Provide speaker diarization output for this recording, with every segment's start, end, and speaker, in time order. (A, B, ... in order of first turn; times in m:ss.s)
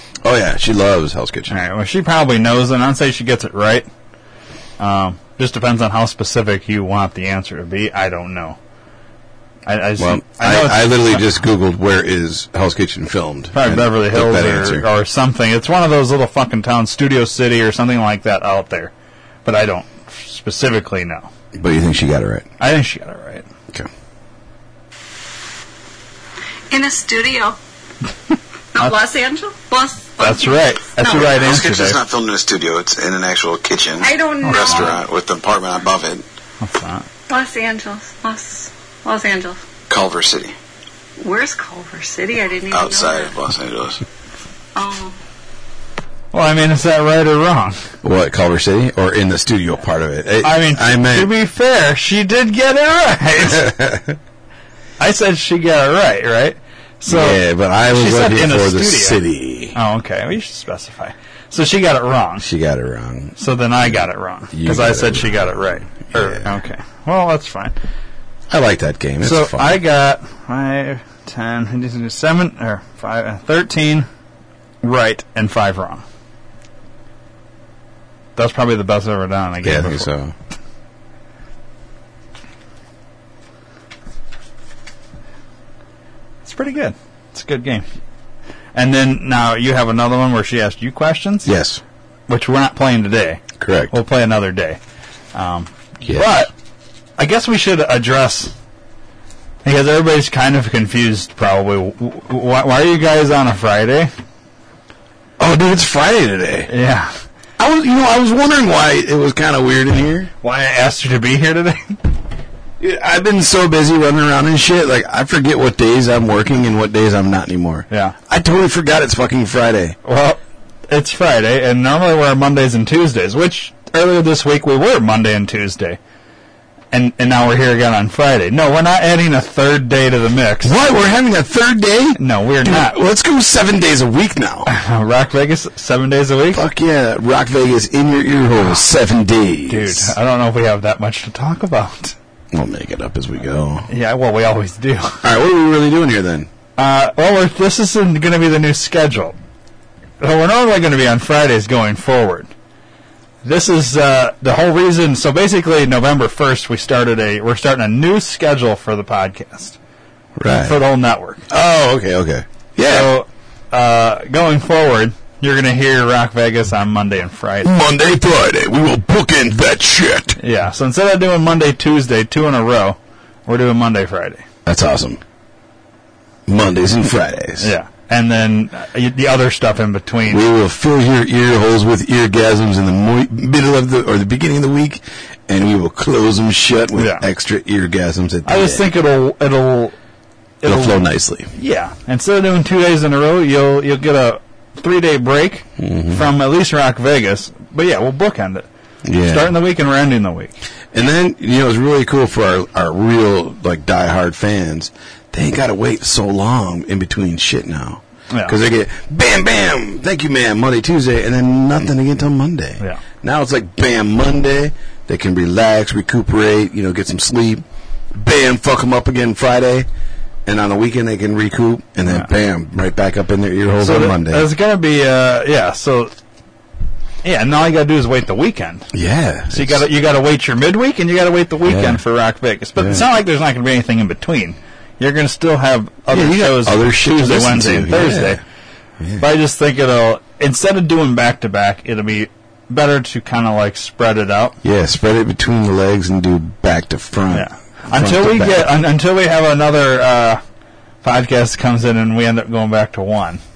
0:00.2-0:01.5 A
0:01.5-0:03.9 B
0:04.8-0:08.6 B
0:09.6-0:11.3 B
0:10.0-0:14.8 A
0:13.5-0:18.9 B
0:19.4-0:21.3 B
0:21.5-0:22.5 A
0:22.6-0:23.4 B
0:26.7-0:27.6 C
0:28.7-0:31.3 C
0:30.2-0:32.0 B
0:31.1-0:36.2 D
0:34.0-0:35.0 C
0:34.4-0:34.9 B
0:36.6-0:37.1 B
0:37.3-0:39.6 C
0:39.9-0:40.5 D
0:41.2-0:43.3 C
0:42.7-0:44.0 D
0:44.7-0:45.1 C
0:46.3-0:47.8 B
0:48.0-0:51.3 A
0:50.4-0:53.7 B
0:53.5-0:54.2 A
0:55.0-0:59.2 B
0:57.1-0:59.8 A
0:59.7-1:02.4 B
1:02.4-1:06.6 A
1:03.4-1:07.7 B
1:08.5-1:09.8 A
1:09.2-1:14.1 B
1:14.8-1:16.0 B
1:18.4-1:20.1 B
1:19.6-1:20.3 A
1:26.4-1:27.9 B
1:28.7-1:31.5 B
1:31.4-1:31.8 A
1:32.3-1:34.8 B
1:33.6-1:33.9 A
1:35.3-1:36.5 B
1:36.0-1:36.4 A
1:37.2-1:38.5 B
1:39.6-1:44.1 B
1:45.4-1:46.7 A
1:46.7-1:47.1 B
1:47.6-1:50.3 A
1:50.4-1:52.0 B
1:52.8-2:00.0 A
1:57.9-1:58.2 B
2:00.0-2:06.0 B
2:06.9-2:10.7 B
2:10.6-2:14.7 A
2:12.2-2:13.0 B
2:14.7-2:16.6 B
2:16.5-2:20.1 A
2:19.7-2:22.1 B
2:22.5-2:23.9 A
2:23.9-2:25.2 B
2:25.2-2:26.5 A
2:26.8-2:29.4 B
2:30.2-2:32.5 B
2:33.4-2:39.8 B
2:40.4-2:40.8 A
2:40.5-2:41.4 B
2:41.5-2:43.1 A
2:42.8-2:47.7 B
2:47.6-2:50.4 A
2:50.4-2:54.4 B
2:54.6-2:55.2 A
2:56.5-2:57.7 A
2:57.6-3:00.5 B
3:00.3-3:08.9 A
3:07.0-3:07.2 B
3:08.4-3:09.9 B
3:10.6-3:11.0 B
3:10.6-3:11.5 A
3:11.5-3:18.7 B
3:15.8-3:16.2 A
3:19.0-3:19.5 A
3:19.2-3:20.5 B
3:20.9-3:37.6 A
3:28.3-3:28.6 B
3:38.1-3:39.9 A
3:40.4-3:44.5 A
3:43.8-3:46.1 B
3:47.2-3:48.9 B
3:48.9-3:49.8 A
3:49.5-3:58.4 B
3:51.6-3:52.0 A
3:52.8-3:53.0 A
3:56.1-3:58.4 A
3:59.0-3:59.2 A
3:59.2-4:04.6 B
4:04.6-4:08.7 A
4:07.3-4:10.4 B
4:11.0-4:13.4 B